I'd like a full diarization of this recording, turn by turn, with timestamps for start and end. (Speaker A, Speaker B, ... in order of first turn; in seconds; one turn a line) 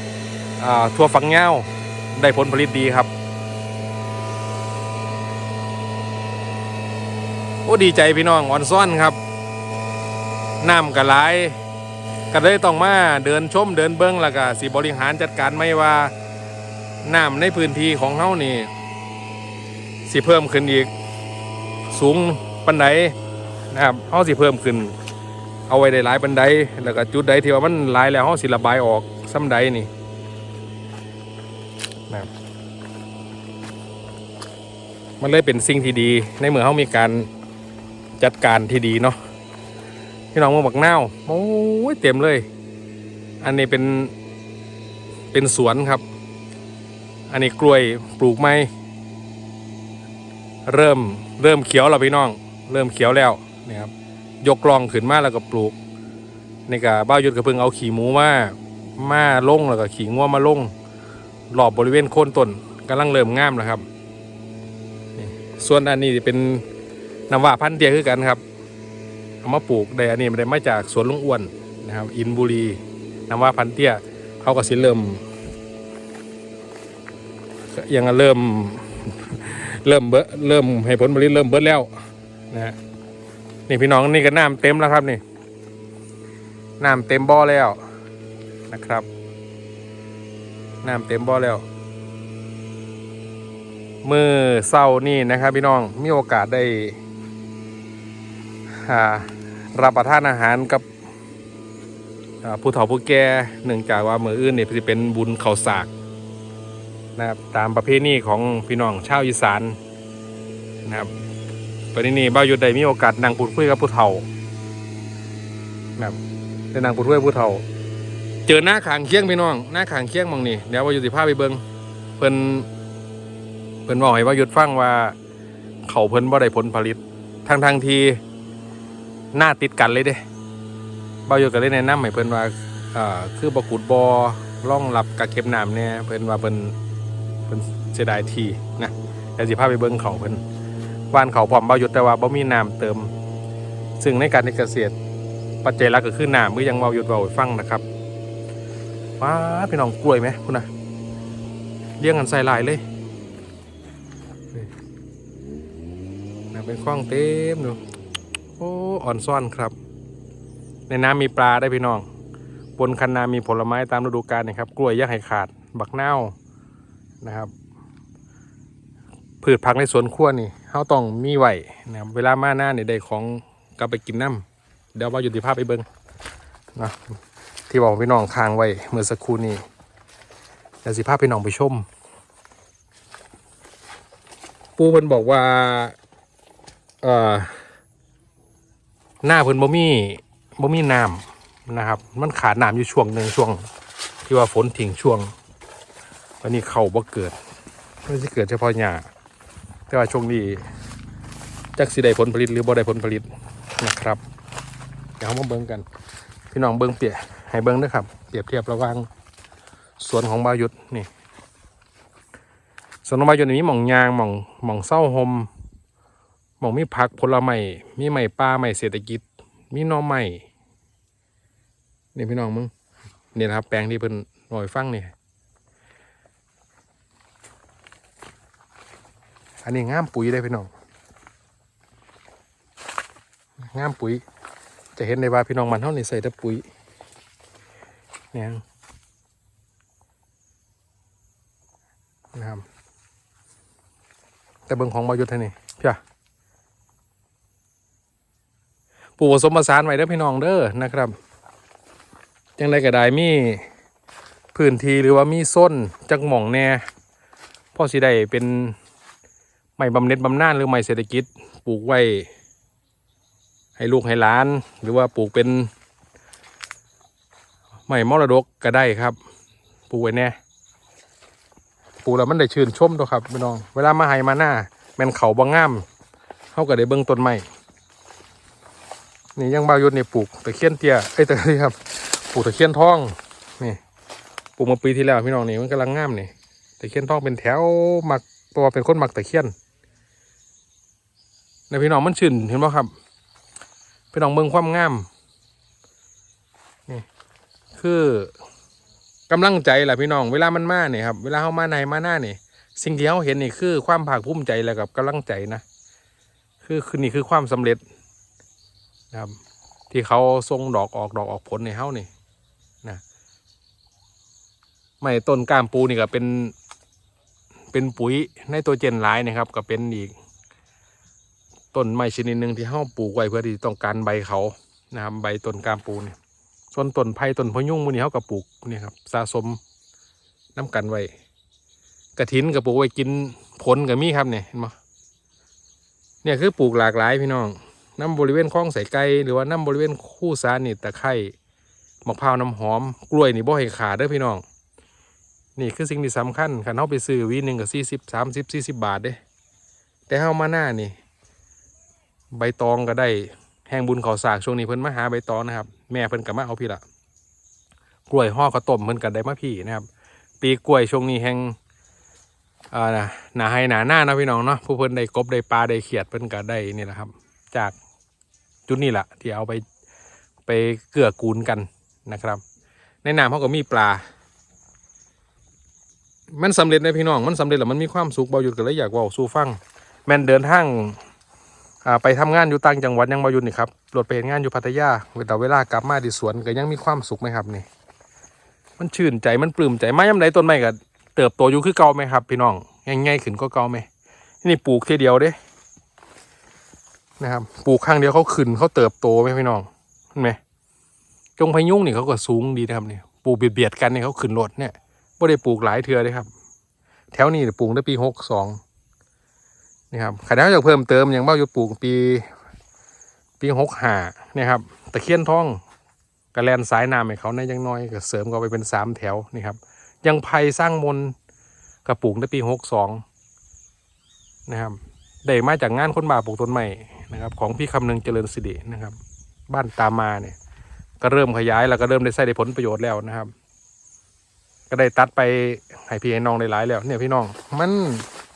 Speaker A: 0.6-3.1
Speaker A: 7.7-9.2
Speaker A: 10.6-11.6
Speaker A: 12.3-16.1
Speaker A: 17.0-18.7
Speaker A: 20.1-20.9
Speaker A: 21.9-23.1
Speaker A: 23.7-24.9
Speaker A: 25.7-29.9
Speaker A: 35.2-37.3
Speaker A: 38.2-39.2
Speaker A: 40.3-42.4
Speaker A: 43.4-44.1
Speaker A: 45.3-46.0
Speaker A: 47.3-48.7
Speaker A: 50.6-53.9
Speaker A: 54.4-55.8
Speaker A: 56.7-60.7
Speaker A: 61.5-63.8
Speaker A: 65.2-66.6
Speaker A: 67.3-68.4
Speaker A: 69.4-75.2
Speaker A: 77.7-81.9
Speaker A: 83.7-85.2
Speaker A: 86.8-87.8
Speaker A: 88.7-89.0
Speaker A: 90.8-91.6
Speaker A: 94.0-97.0
Speaker A: 98.8-100.8
Speaker A: 102.4-105.9
Speaker A: 107.2-109.8
Speaker A: 110.8-111.1
Speaker A: 111.9-114.2
Speaker A: 116.7-117.6
Speaker A: 118.5-121.6
Speaker A: 122.2-122.7
Speaker A: 123.8-125.1
Speaker A: 125.9-128.2
Speaker A: 129.3-130.2
Speaker A: 131.3-136.8
Speaker A: 137.5-140.4
Speaker A: 141.1-143.1
Speaker A: 144.0-144.9
Speaker A: 145.6-147.8
Speaker A: 149.2-150.7
Speaker A: 152.0-152.8
Speaker A: 156.5-157.8
Speaker A: 158.6-159.7
Speaker A: 160.9-162.1
Speaker A: 162.8-166.3
Speaker A: 167.2-167.5
Speaker A: 169.4-174.4
Speaker A: 174.9-175.8
Speaker A: 177.7-179.6
Speaker A: 180.8-181.8
Speaker A: 184.8-185.9
Speaker A: 187.0-187.6
Speaker A: 189.2-193.7
Speaker A: 194.2-195.3
Speaker A: 196.4-197.3
Speaker A: 198.1-199.1
Speaker A: 199.9-200.6
Speaker A: 201.8-203.3
Speaker A: 203.8-204.2
Speaker A: 205.2-205.8
Speaker A: 206.5-209.1
Speaker A: 210.0-211.1
Speaker A: 213.0-215.5
Speaker A: 216.6-220.4
Speaker A: 222.1-222.7
Speaker A: 223.3-225.1
Speaker A: 229.6-230.7
Speaker A: 233.7-234.2
Speaker A: 234.9-236.6
Speaker A: 238.3-238.6
Speaker A: 242.3-242.6
Speaker A: 244.7-246.0
Speaker A: 249.2-251.2
Speaker A: 252.6-253.6
Speaker A: 254.5-256.8
Speaker A: 257.7-258.8
Speaker A: 259.8-262.3
Speaker A: 263.8-265.7
Speaker A: 267.9-269.2
Speaker A: 269.9-270.3
Speaker A: 272.0-275.9
Speaker A: 276.5-277.4
Speaker A: 279.4-283.8
Speaker A: 284.6-289.5
Speaker A: 291.7-292.9
Speaker A: 294.1-295.1
Speaker A: 297.8-298.3
Speaker A: 299.3-305.6
Speaker A: 306.6-307.8
Speaker A: 309.9-312.1
Speaker A: 315.0-316.5
Speaker A: 317.7-320.1
Speaker A: 321.7-326.2
Speaker A: 326.7-329.6
Speaker A: 330.6-331.1
Speaker A: 332.2-334.7
Speaker A: 336.2-341.3
Speaker A: 342.0-344.4
Speaker A: 345.6-349.2
Speaker A: 350.1-350.9
Speaker A: 352.3-356.8
Speaker A: 358.1-359.9
Speaker A: 360.4-361.6
Speaker A: 362.7-367.7
Speaker A: 368.7-369.6
Speaker A: 370.4-372.4
Speaker A: 373.0-374.0
Speaker A: 376.3-381.0
Speaker A: 381.8-387.7
Speaker A: 388.8-393.9
Speaker A: 394.4-395.4
Speaker A: 397.2-400.4
Speaker A: 401.4-406.3
Speaker A: 407.1-408.6
Speaker A: 409.9-412.2
Speaker A: 413.4-415.6
Speaker A: 416.3-421.1
Speaker A: 421.8-423.0
Speaker A: 424.5-428.9
Speaker A: 429.5-430.4
Speaker A: 431.0-433.3
Speaker A: 434.7-438.1